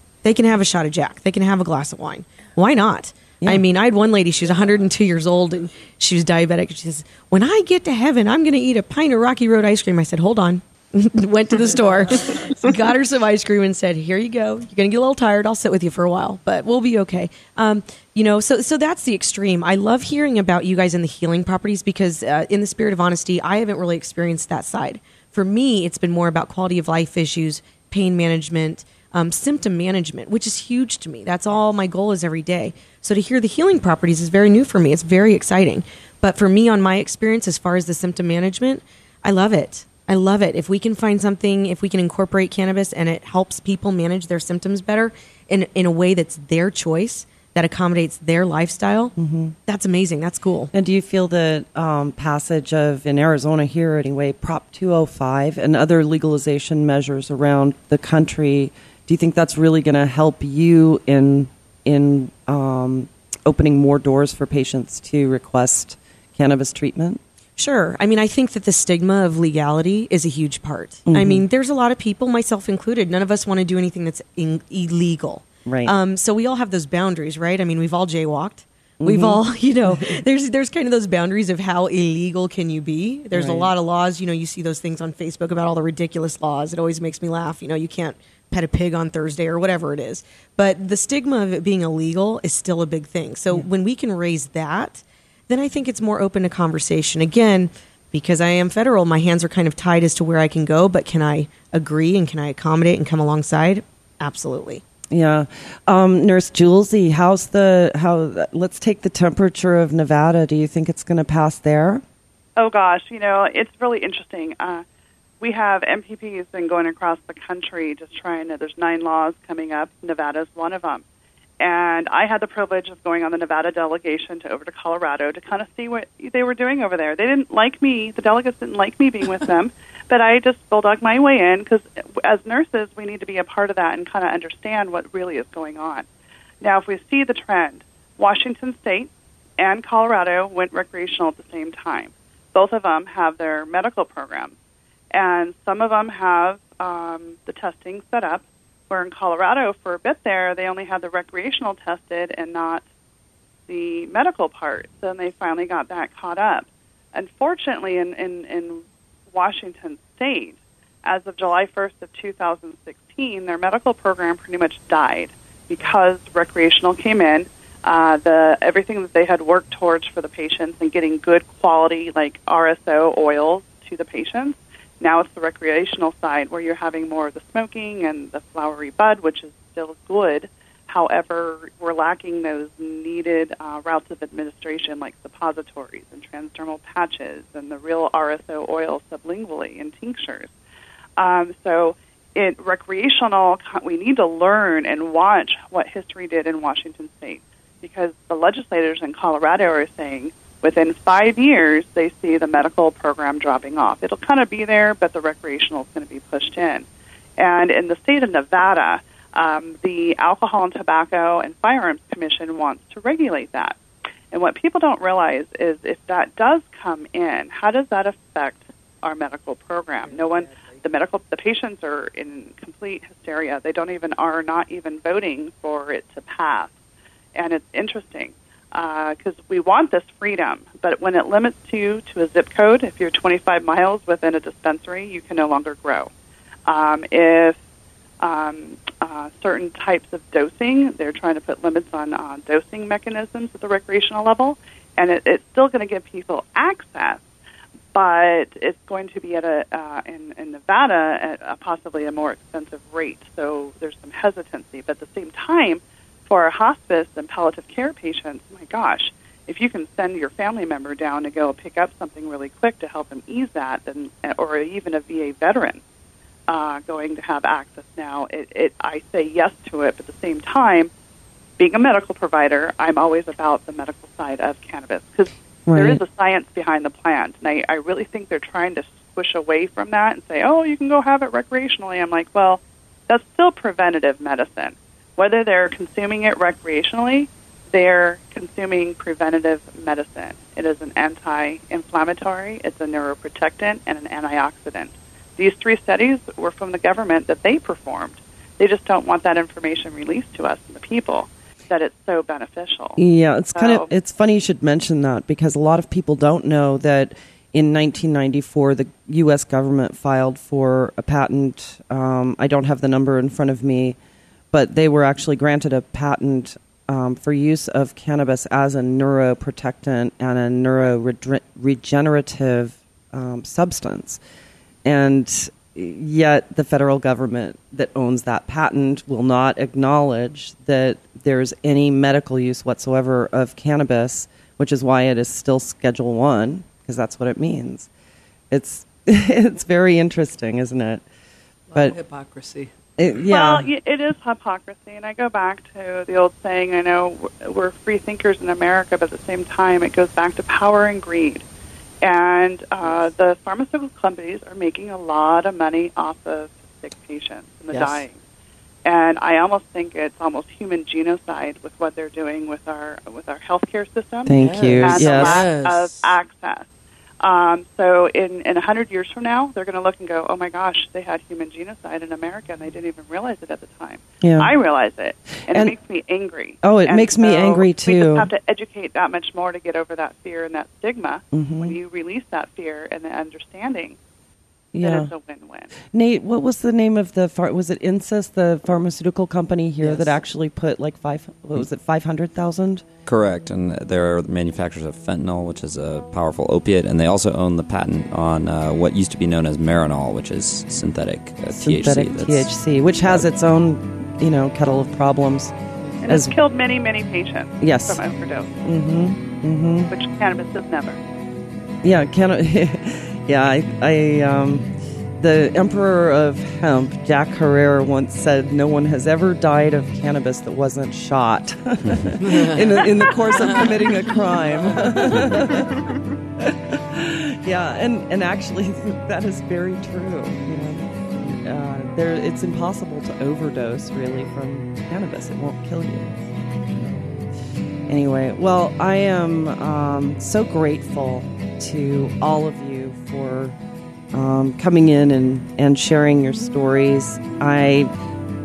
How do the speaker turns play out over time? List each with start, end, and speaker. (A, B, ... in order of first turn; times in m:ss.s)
0:00.2-0:49.1 A
0:49.2-0:49.5 B
0:49.7-0:50.7 A
0:50.7-1:07.2 B
1:07.6-1:44.8 A
1:11.0-1:11.4 B
1:15.6-1:15.9 B
1:19.0-1:20.2 B
1:23.3-1:23.7 B
1:45.1-1:52.0 B
1:52.6-1:54.8 C
1:55.4-2:01.0 C
2:01.6-2:16.0 C
2:16.6-2:24.5 C
2:25.1-2:32.8 C
2:33.7-3:10.5 C
3:11.2-3:26.8 C
3:27.4-3:33.8 C
3:34.3-3:46.7 C
3:40.0-3:40.8 D
3:47.3-3:56.1 C
3:56.7-3:57.6 C
3:58.2-4:07.2 C
4:07.9-4:25.8 C
4:26.5-4:30.9 C
4:31.6-5:03.0 C
4:35.7-4:36.0 B
5:03.0-5:14.0 B
5:03.6-5:03.9 C
5:14.5-5:24.2 B
5:24.8-5:37.9 B
5:38.5-5:41.0 B
5:41.7-5:42.7 D
5:43.0-5:43.7 B
5:43.3-5:51.4 C
5:52.0-5:58.2 C
5:57.7-5:58.0 D
5:58.8-6:06.7 C
6:04.2-6:05.4 B
6:04.4-6:06.1 D
6:07.2-6:24.0 C
6:14.2-6:14.5 B
6:15.5-6:15.7 B
6:16.6-6:18.3 B
6:21.3-6:21.8 B
6:24.7-6:25.1 B
6:24.8-6:25.7 C
6:25.9-6:32.8 B
6:29.8-6:30.2 D
6:33.0-6:42.5 E
6:41.6-6:45.5 B
6:46.0-6:48.5 C
6:46.1-6:46.3 B
6:47.6-6:48.0 B
6:48.6-6:49.9 B
6:49.9-6:51.0 C
6:51.8-7:05.8 B
7:02.2-7:03.8 D
7:04.8-7:05.7 D
7:06.4-7:16.1 B
7:17.9-7:23.6 B
7:24.1-7:27.9 B